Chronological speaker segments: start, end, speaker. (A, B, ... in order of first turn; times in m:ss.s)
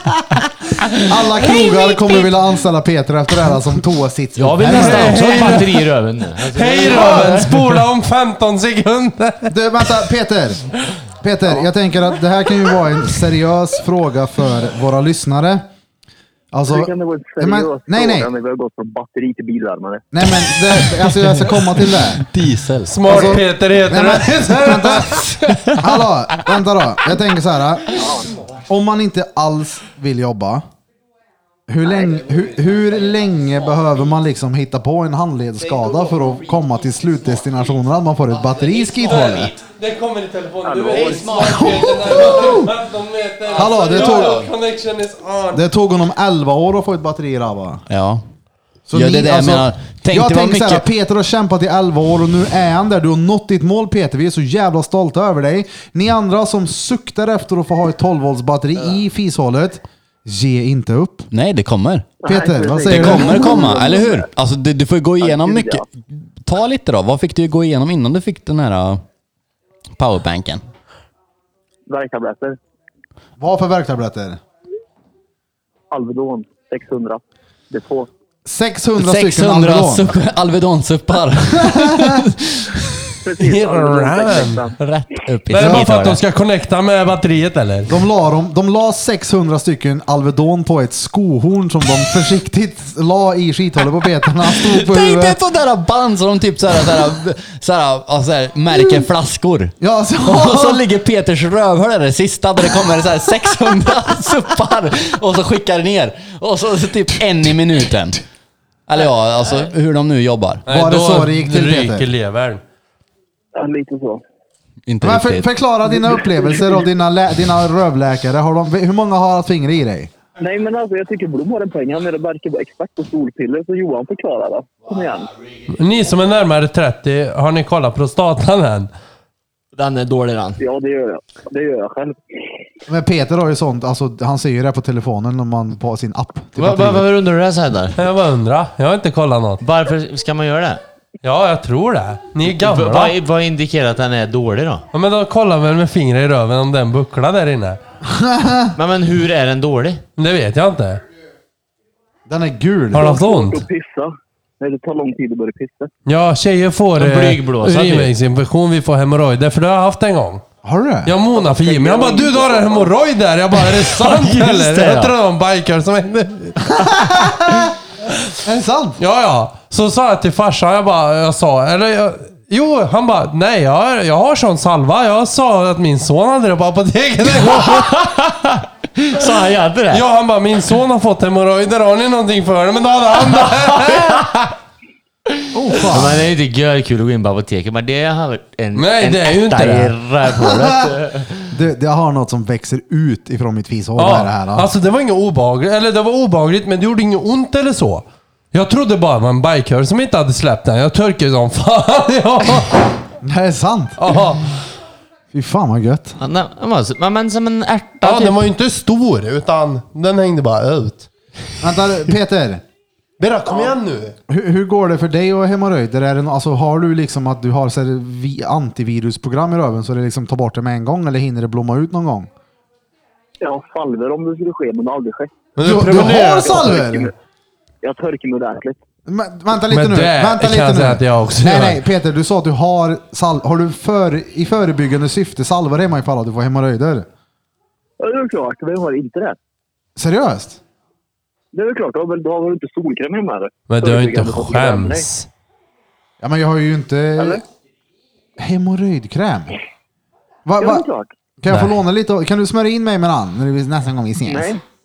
0:01.1-0:05.5 A
0:04.4-0:07.5 B
0:04.6-0:05.9 C
0:06.5-0:09.5 C
0:06.9-0:07.5 A
0:09.5-0:10.7 A
0:11.2-0:15.6 A
0:16.5-0:18.3 A
0:16.7-0:20.0 D
0:20.1-0:22.2 A
0:20.8-0:21.5 E
0:22.2-0:23.2 E
0:22.9-0:25.6 C
0:23.1-0:30.6 A
0:27.9-0:28.3 D
0:31.7-0:39.5 A
0:39.1-0:45.6 C
0:40.6-0:41.4 D
0:41.0-0:42.6 E
0:41.4-0:42.7 A
0:43.5-0:44.4 A
0:43.7-0:44.5 E
0:45.5-0:47.8 A
0:47.9-0:48.2 E
0:48.9-1:01.3 A
0:48.9-0:50.8 E
1:01.3-1:02.1 E
1:02.2-1:04.3 D
1:02.2-1:03.8 A
1:02.8-1:09.0 E
1:05.2-1:05.8 D
1:10.0-1:10.6 E
1:11.9-1:12.6 D
1:13.4-1:14.4 A
1:15.9-1:18.1 D
1:18.4-1:20.2 A
1:19.0-1:23.2 E
1:21.5-1:22.3 A
1:23.2-1:24.8 D
1:23.4-1:24.7 C
1:24.8-1:26.2 E
1:25.5-1:27.9 C
1:25.5-1:25.9 A
1:27.9-1:35.4 A
1:34.6-1:48.2 E
1:39.8-1:40.8 A
1:48.9-1:50.7 E
1:50.7-1:52.6 C
1:50.7-1:52.0 A
1:53.5-1:54.2 D
1:54.9-1:55.5 E
1:55.0-2:00.1 A
1:56.0-1:56.8 D
2:00.4-2:05.3 D
2:05.7-2:08.9 C
2:09.8-2:10.6 B
2:10.6-2:12.2 D
2:12.9-2:17.1 A
2:16.6-2:18.0 B
2:18.0-2:19.6 C
2:19.6-2:20.8 B
2:21.2-2:23.1 C
2:22.4-2:24.8 B
2:24.9-2:27.8 C
2:28.0-2:28.7 A
2:28.7-2:30.0 B
2:30.2-2:31.0 C
2:32.3-2:33.2 A
2:32.9-2:33.6 C
2:32.9-2:35.9 D
2:36.0-2:40.4 C
2:37.0-2:38.1 B
2:40.6-2:41.1 A
2:41.0-2:47.7 C
2:41.4-2:42.9 D
2:44.0-2:45.1 B
2:46.8-2:47.6 A
2:48.4-2:49.0 A
2:49.0-2:58.0 C
2:57.4-3:00.0 B
2:59.9-3:04.3 C
3:03.7-3:04.3 B
3:05.5-3:06.3 A
3:05.8-3:11.3 B
3:08.8-3:09.9 C
3:11.5-3:14.7 A
3:14.0-3:22.8 C
3:23.2-3:24.0 A
3:24.0-3:24.6 C
3:25.3-3:26.2 A
3:26.2-3:28.5 B
3:28.0-3:31.1 C
3:31.6-3:32.6 A
3:33.2-3:34.1 C
3:33.5-3:33.7 D
3:34.3-3:42.3 A
3:43.4-3:47.1 D
3:45.6-3:46.6 C
3:45.6-3:47.1 A
3:47.8-3:48.8 D
3:49.1-3:57.1 A
3:49.7-3:51.8 C
3:58.0-3:59.4 D
4:00.0-4:00.6 A
4:01.5-4:05.0 D
4:03.7-4:05.3 C
4:06.2-4:07.4 A
4:07.2-4:07.4 D
4:08.4-4:09.6 A
4:10.4-4:10.8 A
4:10.6-4:11.1 D
4:11.4-4:14.5 A
4:14.2-4:14.6 D